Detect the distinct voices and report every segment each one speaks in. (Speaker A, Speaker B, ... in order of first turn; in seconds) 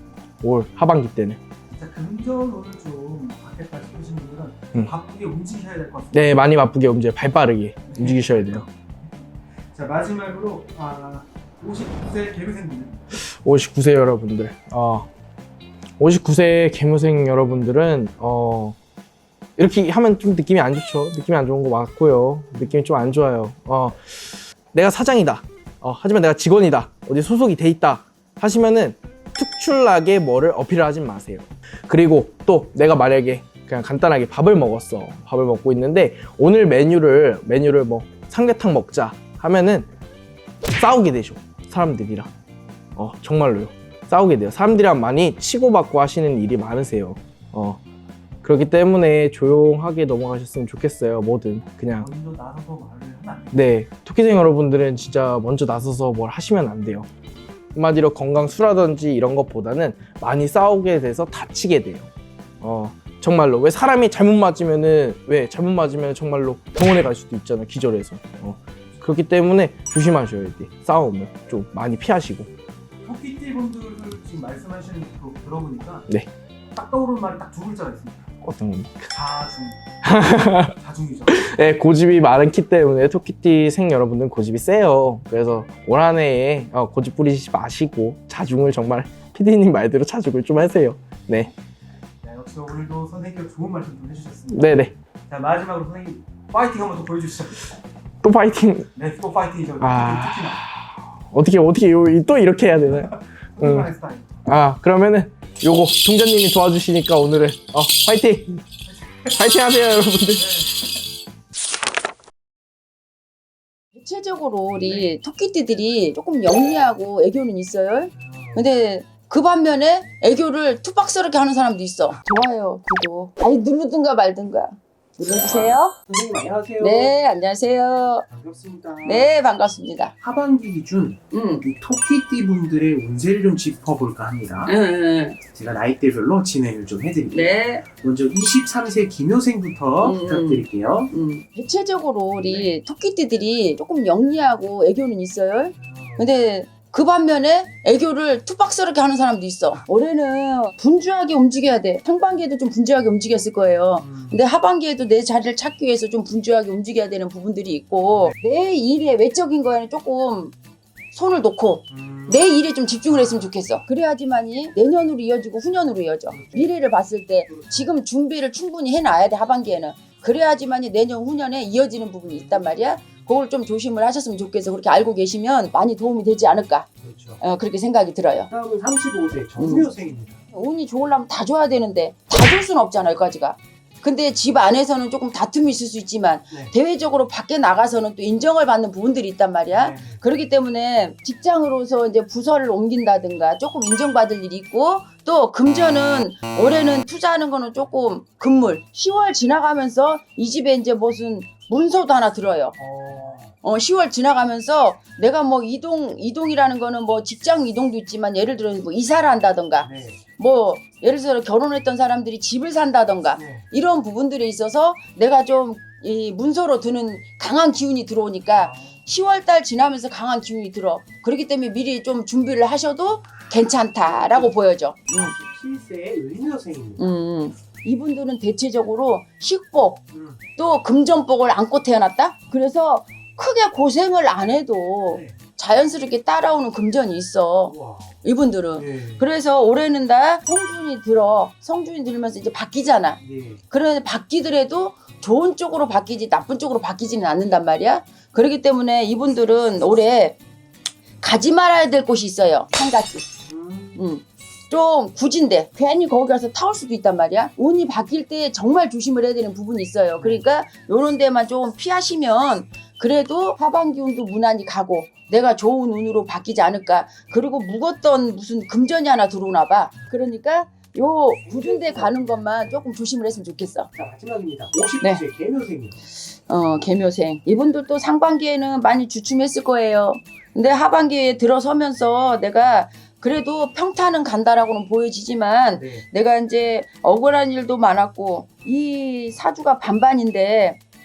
Speaker A: 0.4-1.4, 6.1-8.7, 13.2-15.1, 16.0-18.8, 19.6-39.9, 40.8-42.3, 43.0-47.8, 48.4-52.1, 53.5-57.1, 57.8-62.1, 62.6-72.5, 78.4-79.1, 80.0-80.7, 81.3-91.5, 94.5-94.9, 98.2-98.9, 99.8-103.9, 104.5-108.6, 109.3-110.6
Speaker B: 1.7-6.4, 7.9-8.6, 9.7-13.1, 52.0-53.7, 73.0-76.1, 76.8-78.3, 79.1-79.8, 80.7-81.5, 92.2-94.8, 95.3-97.7, 99.0-100.6, 102.9-104.3, 108.9-109.3, 110.4-110.8, 114.8-115.1
Speaker C: 114.0-126.0, 126.8-128.3, 129.1-130.1, 131.3-131.7, 134.7-135.4, 137.3-137.8, 140.0-160.6, 161.1-176.9, 177.4-178.5, 179.6-179.9, 180.5-202.8, 203.6-225.3, 227.0-230.0, 230.6-250.4, 251.2-253.3, 254.0-273.9, 276.3-290.8
Speaker D: 118.1-118.7, 125.5-127.2, 128.3-129.3, 130.2-134.7, 135.4-141.1, 142.4-142.7, 145.7-146.3, 154.0-154.4, 161.9-162.4, 163.1-163.5, 166.3-166.8, 167.5-167.8, 172.4-173.2, 177.0-177.4, 178.5-180.4, 189.7-190.2, 202.8-203.5, 209.8-210.2, 213.3-213.6, 218.5-218.9, 224.0-224.5, 225.1-227.2, 230.1-230.4, 235.1-235.4, 237.7-238.2, 238.7-239.2, 243.2-243.6, 253.5-254.0, 260.2-260.4, 271.4-272.8, 273.9-276.0, 285.7-286.1